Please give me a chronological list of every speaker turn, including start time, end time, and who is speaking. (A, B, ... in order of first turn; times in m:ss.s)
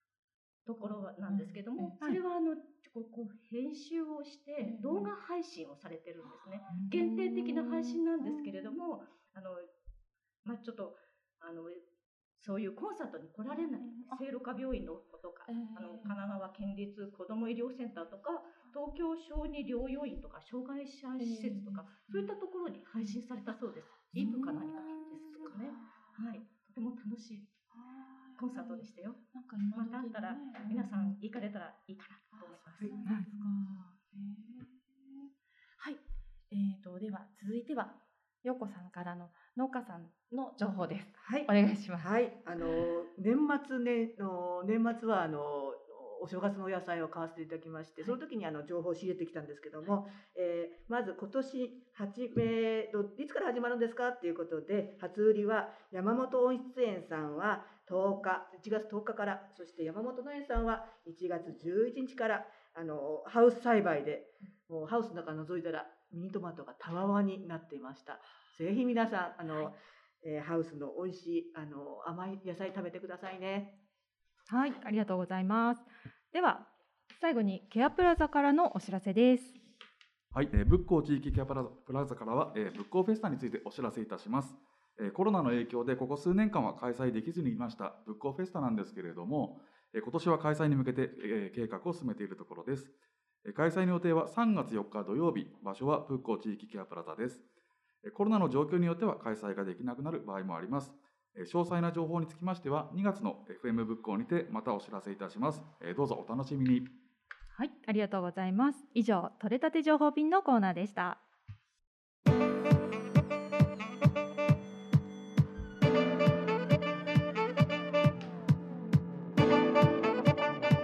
0:00.7-0:09.7 A
0:01.2-0:02.0 B
0:01.8-0:02.2 C
0:04.6-0:05.1 B
0:06.2-0:07.4 B
0:06.7-0:07.9 C
0:08.2-0:08.6 B
0:10.4-0:11.8 A
0:12.4-0:27.6 A
0:13.5-0:14.2 B
0:15.5-0:16.1 B
0:21.2-0:22.3 B
0:24.1-0:24.5 C
0:24.1-0:26.2 B
0:27.7-0:31.2 B
0:28.4-0:33.0 A
0:32.3-0:42.7 B
0:33.0-0:33.6 C
0:41.2-1:13.7 D
1:14.5-1:19.6 C
1:20.3-1:32.9 E
1:33.4-1:37.4 E
1:38.0-1:46.9 E
1:47.6-1:51.2 C